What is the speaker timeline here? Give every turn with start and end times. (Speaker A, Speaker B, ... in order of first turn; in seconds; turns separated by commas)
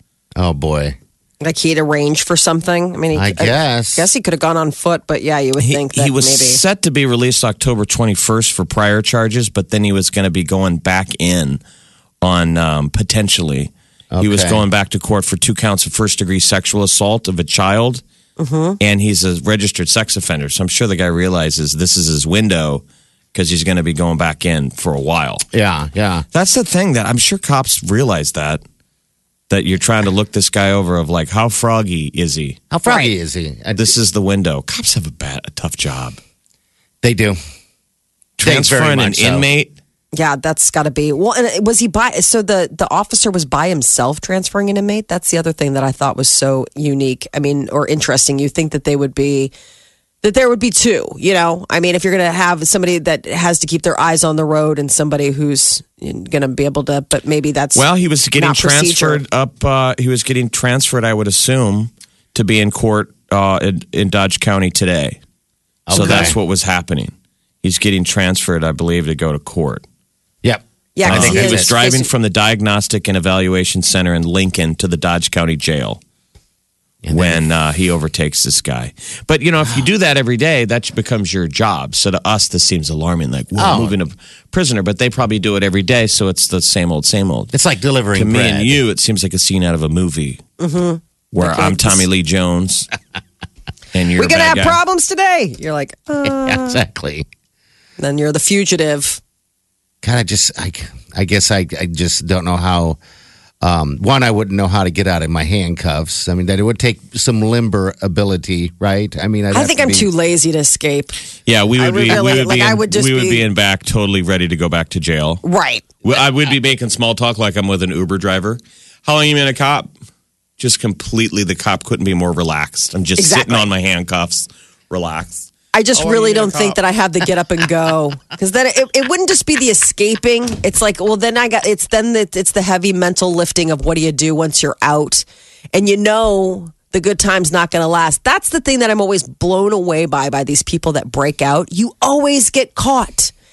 Speaker A: 0.4-1.0, Speaker B: 1.4-6.6, Speaker A: 3.1-4.1, Speaker C: 5.6-11.6, Speaker C: 12.2-18.0, Speaker A: 14.1-14.6, Speaker B: 18.4-18.8, Speaker C: 18.8-22.8, Speaker C: 23.3-25.4, Speaker A: 25.5-26.2, Speaker C: 26.3-28.6, Speaker C: 29.5-32.6, Speaker A: 32.7-33.9, Speaker C: 33.8-36.2, Speaker A: 37.0-37.4, Speaker C: 38.4-39.7, Speaker A: 38.4-39.5, Speaker B: 40.1-49.5, Speaker B: 50.2-57.9, Speaker C: 57.8-65.2, Speaker B: 58.4-59.2, Speaker A: 65.9-66.4, Speaker C: 65.9-67.1, Speaker B: 66.0-66.3, Speaker C: 67.6-69.8, Speaker A: 70.4-71.7, Speaker B: 71.0-72.1, Speaker C: 71.0-76.0, Speaker A: 77.0-77.4, Speaker C: 77.1-87.5, Speaker A: 83.6-83.9, Speaker A: 87.5-88.8, Speaker C: 88.2-90.4, Speaker B: 90.6-92.0, Speaker C: 91.3-92.9, Speaker C: 93.9-94.8, Speaker B: 94.2-96.8, Speaker A: 96.2-97.3, Speaker B: 98.0-99.2, Speaker A: 100.0-103.0, Speaker A: 103.6-110.1, Speaker B: 109.5-111.2, Speaker C: 111.5-115.4, Speaker B: 111.8-113.5, Speaker B: 115.4-115.9, Speaker C: 116.0-119.9, Speaker C: 120.6-125.5, Speaker B: 123.2-123.7, Speaker B: 125.7-143.3, Speaker A: 125.9-126.8